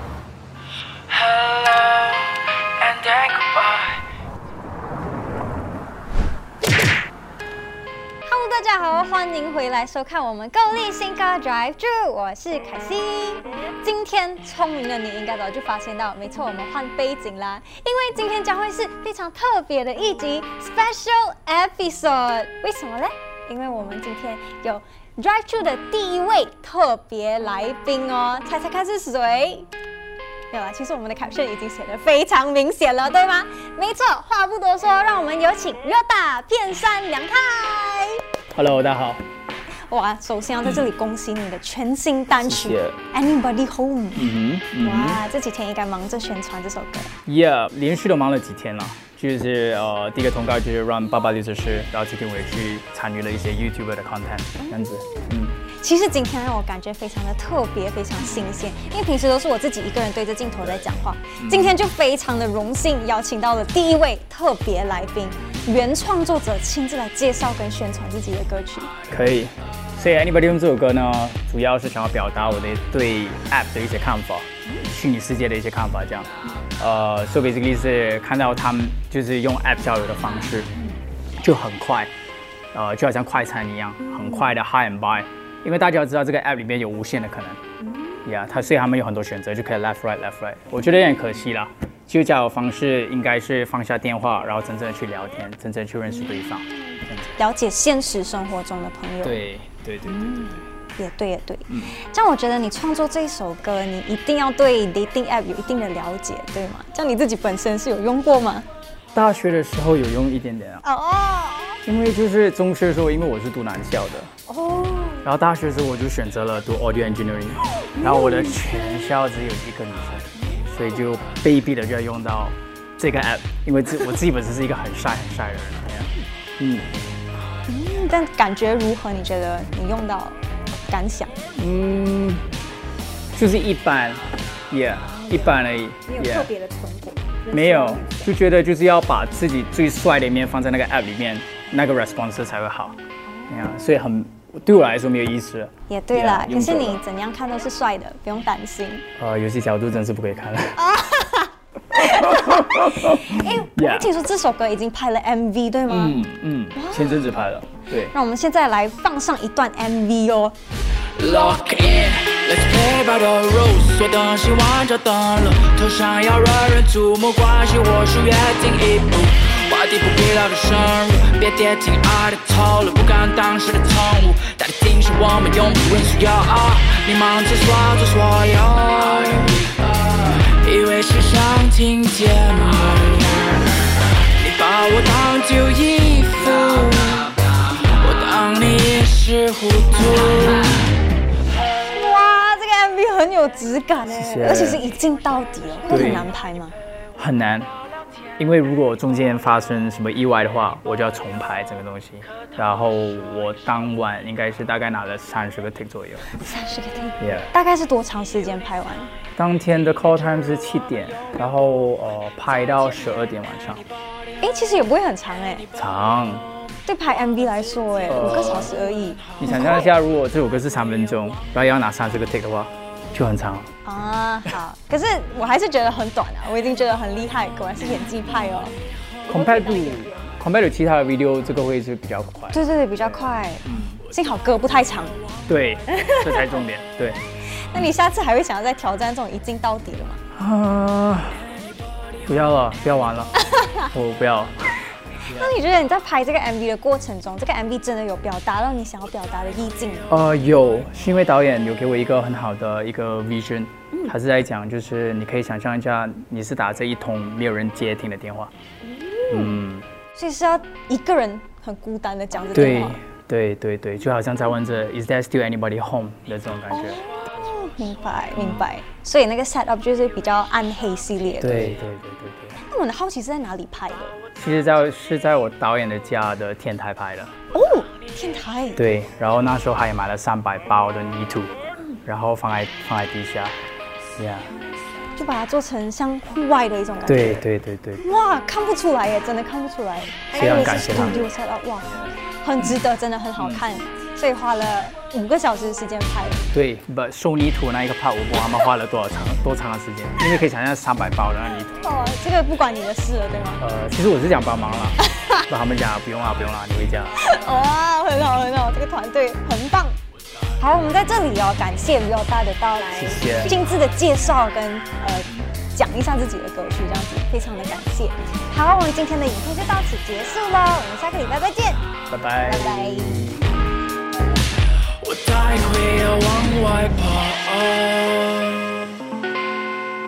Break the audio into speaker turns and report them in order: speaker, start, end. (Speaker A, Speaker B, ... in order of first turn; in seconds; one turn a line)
Speaker A: 1.1-4.0
Speaker B: 8.3-29.7
Speaker B: 30.5-38.2
Speaker C: 38.5-39.2
Speaker B: 39.9-44.3
Speaker C: 42.4-43.0
Speaker C: 44.1-45.2
Speaker B: 44.8-47.1
Speaker C: 47.3-55.6
Speaker B: 54.7-55.3
Speaker B: 55.8-68.9
Speaker C: 61.4-61.8
Speaker C: 69.1-80.7
Speaker C: 81.4-82.1
Speaker C: 82.7-87.6
Speaker C: 88.2-97.4
Speaker B: 97.4-99.4
Speaker C: 99.2-100.6
Speaker B: 100.1-108.7
Speaker C: 101.7-102.0
Speaker C: 109.2-110.8
Speaker B: 110.8-111.8
Speaker C: 111.9-114.3
Speaker B: 114.5-115.3
Speaker C: 115.2-126.9
Speaker B: 118.0-118.6
Speaker B: 127.7-131.4
Speaker C: 131.5-132.5
Speaker C: 133.3-136.5
Speaker B: 135.0-138.3
Speaker C: 137.5-143.0
Speaker B: 143.3-143.8
Speaker C: 143.5-147.0
Speaker B: 145.9-149.1
Speaker C: 149.2-150.9
Speaker B: 150.8-156.2
Speaker C: 151.9-154.1
Speaker C: 155.9-158.1
Speaker B: 156.7-157.4
Speaker B: 158.0-160.6
Speaker A: 161.2-190.9
Speaker B: 191.6-196.7
Speaker C: 194.1-194.9
Speaker C: 195.9-196.3
Speaker C: 197.2-197.7
Speaker C: 198.4-206.3
Speaker B: 206.3-209.1
Speaker C: 207.2-207.5
Speaker C: 209.4-213.9
Speaker B: 214.4-215.7
Speaker C: 215.7-216.5
Speaker B: 216.9-219.9
Speaker C: 218.1-218.7
Speaker C: 219.4-223.7
Speaker B: 223.8-230.2
Speaker C: 229.3-232.6
Speaker B: 232.5-235.2
Speaker C: 233.6-234.0
Speaker C: 235.5-237.2
Speaker B: 235.9-236.6
Speaker B: 237.7-240.2
Speaker C: 240.3-241.5
Speaker C: 242.3-244.6
Speaker B: 243.4-243.9
Speaker C: 245.3-245.6
Speaker B: 245.3-250.1
Speaker C: 250.1-258.5
Speaker B: 258.9-259.6
Speaker C: 259.3-259.9
Speaker B: 260.1-263.0
Speaker C: 262.5-267.0
Speaker B: 266.7-271.8
Speaker C: 268.4-268.7
Speaker C: 271.4-272.6
Speaker B: 272.6-274.2
Speaker C: 274.4-277.4
Speaker B: 277.5-278.8
Speaker C: 278.8-281.5
Speaker C: 282.1-283.6
Speaker C: 284.2-284.5
Speaker B: 285.2-287.5
Speaker C: 287.1-288.0
Speaker B: 288.0-296.4
Speaker C: 290.3-291.3
Speaker C: 293.4-293.7
Speaker C: 296.5-301.8
Speaker B: 301.6-303.6
Speaker C: 303.6-307.3
Speaker B: 305.0-305.4
Speaker B: 307.2-310.0
Speaker B: 310.6-321.9
Speaker C: 312.9-313.6
Speaker C: 322.1-323.5
Speaker B: 322.4-323.3
Speaker A: 325.1-328.6
Speaker C: 325.3-326.9